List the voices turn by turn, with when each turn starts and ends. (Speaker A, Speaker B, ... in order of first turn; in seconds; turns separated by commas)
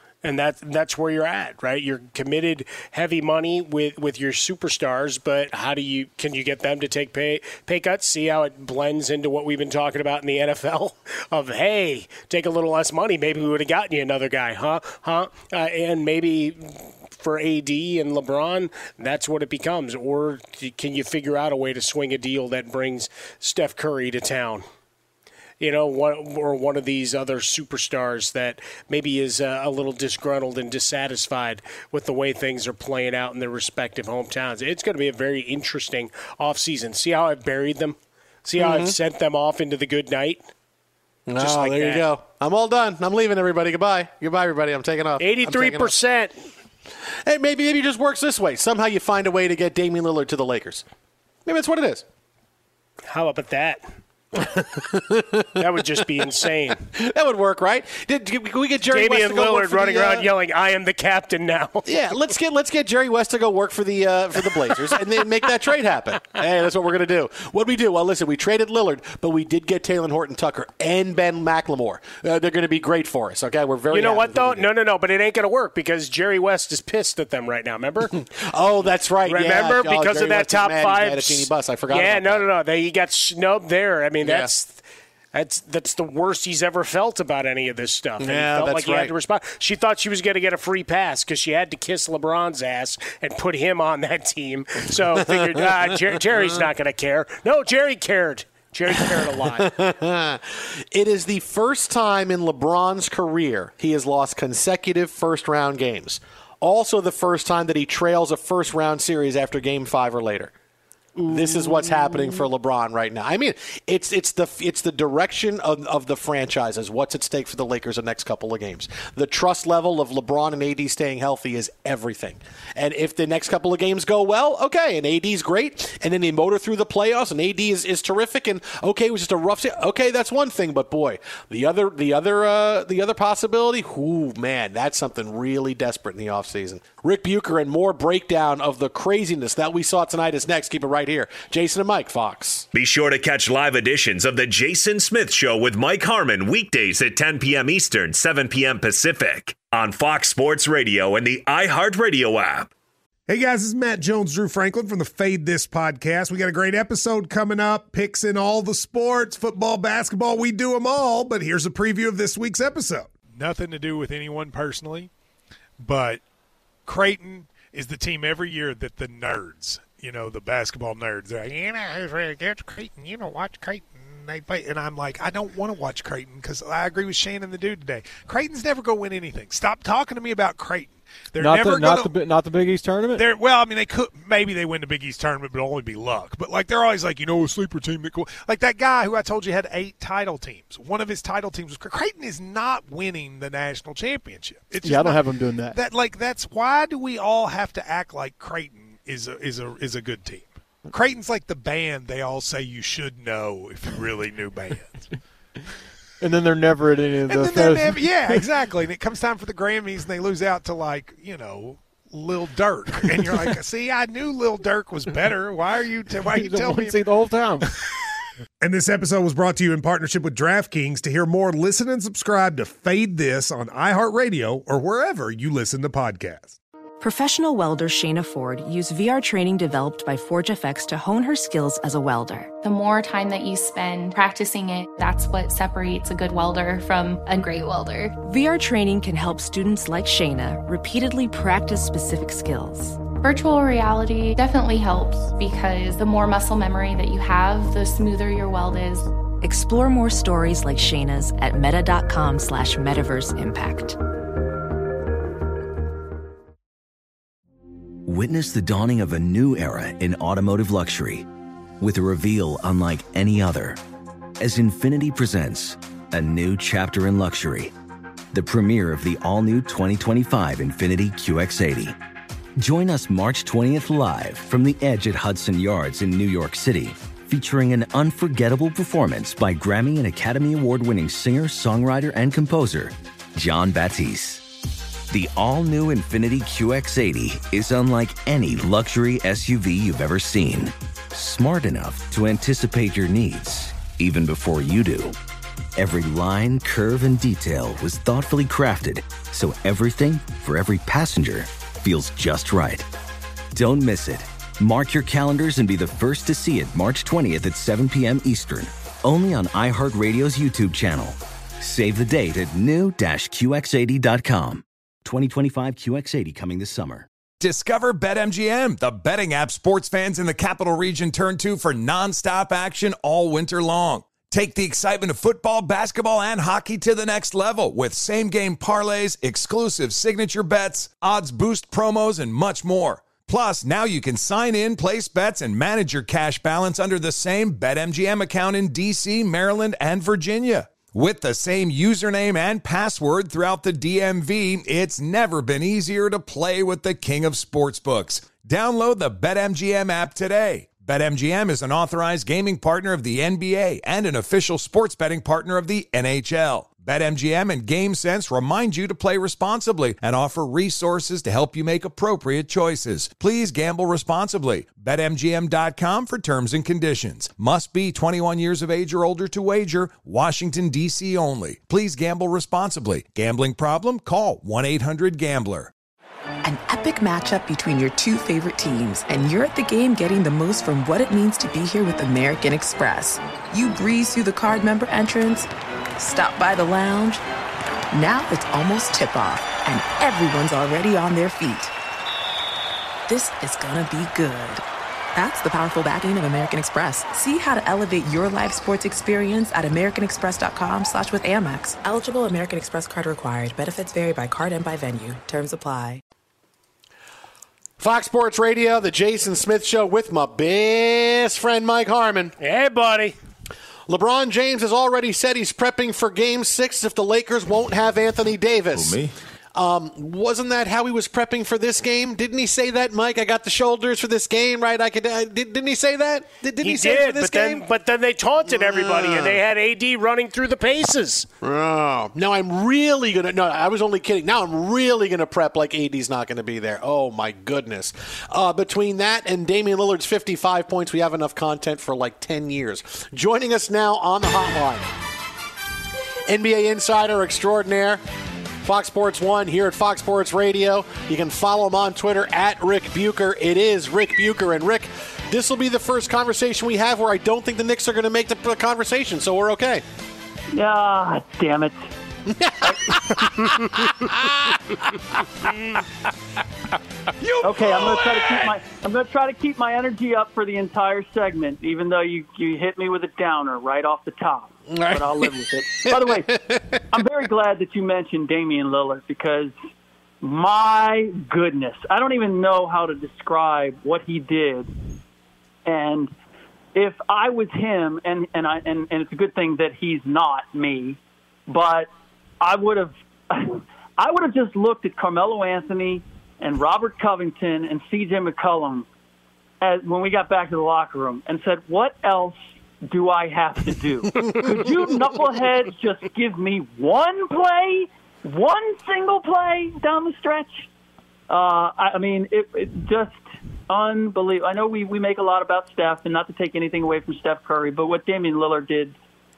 Speaker A: 0.2-24.6, Speaker A: 25.6-40.4, Speaker B: 38.6-39.0, Speaker B: 41.3-45.9, Speaker A: 41.4-42.1, Speaker A: 45.2-46.3, Speaker B: 47.2-50.8, Speaker B: 51.5-52.0, Speaker A: 53.1-53.8, Speaker B: 54.4-55.6, Speaker A: 55.6-56.8, Speaker B: 56.9-60.3, Speaker A: 58.9-61.9, Speaker B: 61.9-74.7, Speaker A: 64.4-65.2, Speaker A: 73.9-78.1, Speaker B: 78.3-82.5, Speaker A: 79.2-84.8, Speaker B: 84.2-84.5, Speaker A: 85.3-99.7, Speaker B: 88.2-89.1, Speaker B: 96.3-96.6, Speaker B: 98.9-110.5, Speaker B: 111.3-142.7, Speaker C: 142.7-152.7, Speaker D: 153.3-163.1, Speaker E: 163.2-165.1, Speaker E: 165.8-166.2, Speaker E: 166.8-182.2, Speaker F: 181.4-183.2, Speaker E: 183.2-205.1, Speaker F: 194.8-195.8, Speaker F: 206.2-208.4, Speaker E: 207.2-217.1, Speaker F: 216.2-217.7, Speaker D: 218.6-226.6, Speaker G: 227.0-232.6, Speaker H: 232.6-238.1, Speaker G: 238.2-243.0, Speaker H: 243.2-249.1, Speaker G: 249.4-254.0, Speaker I: 258.0-261.3, Speaker I: 261.8-263.8, Speaker I: 264.4-267.7, Speaker I: 268.3-272.0, Speaker I: 272.6-284.4, Speaker I: 285.1-295.2, Speaker I: 295.8-302.9, Speaker I: 303.5-317.1, Speaker J: 317.4-375.7, Speaker K: 376.4-387.2, Speaker K: 387.9-391.7, Speaker K: 393.1-406.0, Speaker B: 407.8-412.3, Speaker A: 412.4-413.1, Speaker B: 413.9-427.6, Speaker A: 426.6-431.3, Speaker B: 428.5-429.4, Speaker B: 431.4-444.9, Speaker B: 446.3-448.0, Speaker B: 448.6-459.8, Speaker L: 460.5-461.9, Speaker B: 462.4-464.6, Speaker L: 467.4-476.3, Speaker B: 474.7-476.8, Speaker L: 476.9-479.5, Speaker L: 480.2-484.7, Speaker L: 485.6-486.1, Speaker L: 486.7-491.9, Speaker L: 492.4-498.9, Speaker L: 499.6-510.7, Speaker L: 511.3-519.0